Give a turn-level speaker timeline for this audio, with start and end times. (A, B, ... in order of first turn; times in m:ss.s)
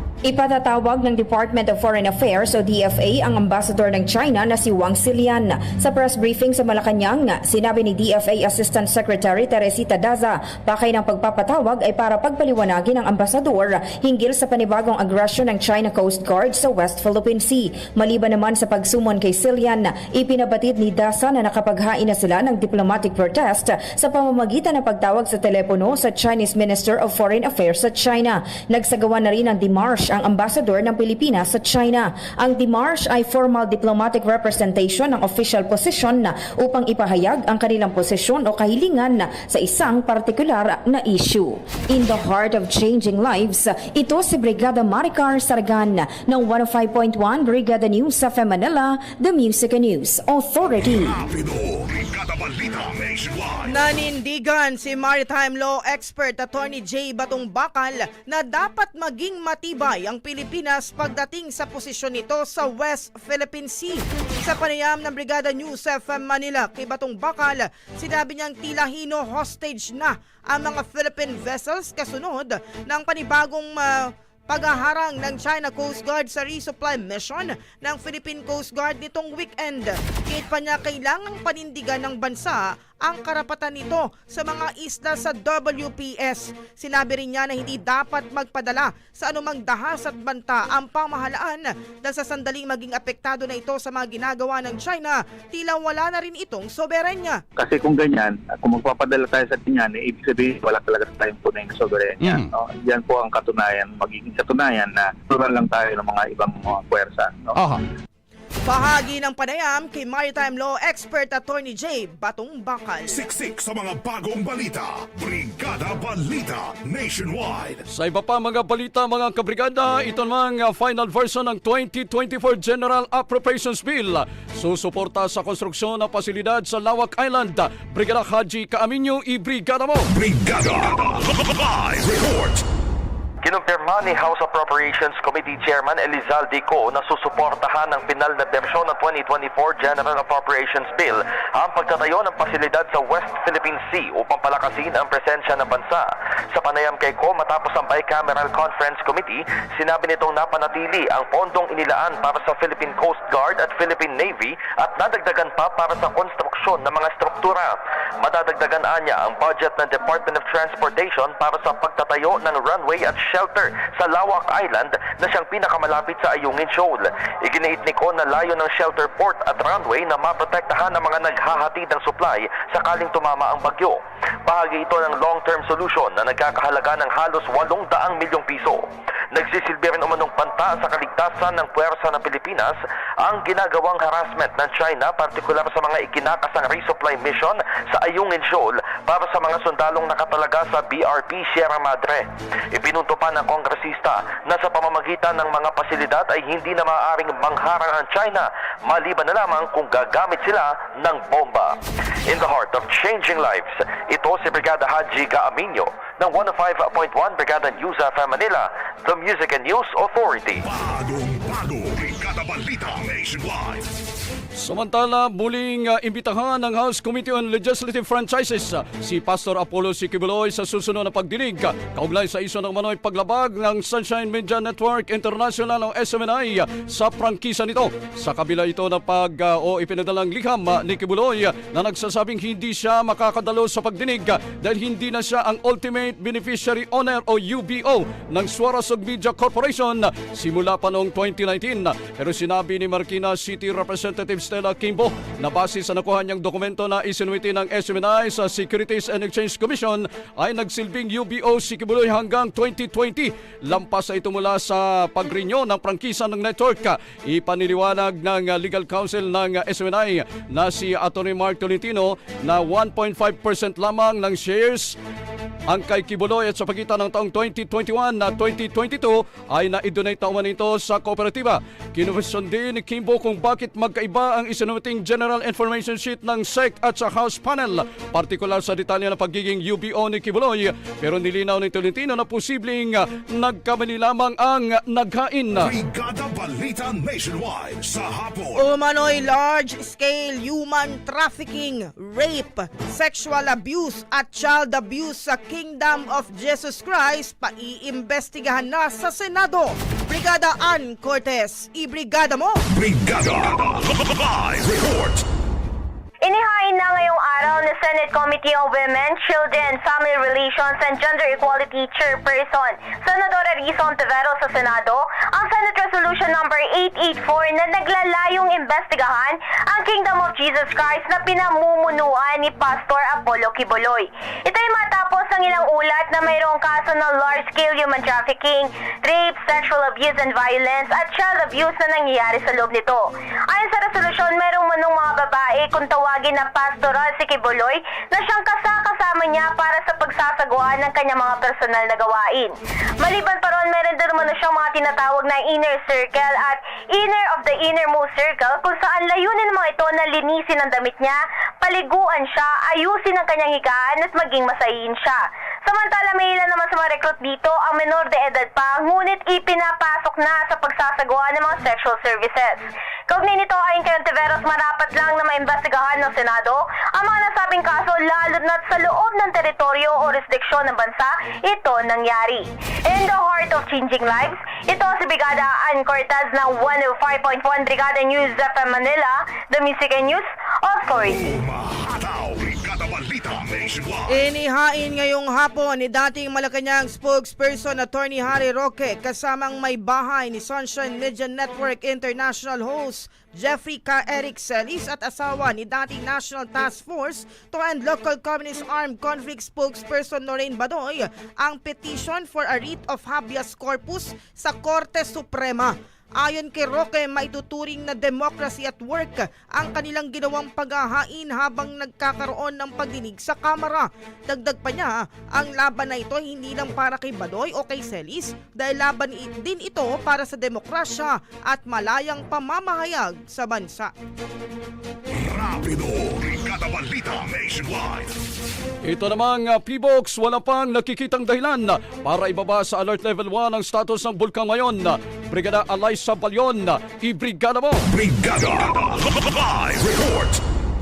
0:00.2-0:51.2 A
0:50.8-0:53.8 B
0:53.7-1:37.4 C
1:37.6-1:47.8 D
1:48.6-1:53.2 C
1:53.1-1:57.8 B
1:57.9-2:10.1 E
2:10.1-2:12.6 B
2:13.4-3:21.7 F
3:22.3-3:30.6 F
3:30.6-3:33.9 B
3:34.6-4:25.0 E
4:25.7-4:45.7 E
4:45.6-4:48.6 B
4:48.6-5:02.6 C
5:02.7-5:05.2 B
5:06.2-6:21.3 G
6:21.0-6:24.2 B
6:24.1-7:03.9 C
7:05.1-7:08.1 B
7:08.8-7:17.8 E
7:17.9-7:20.4 B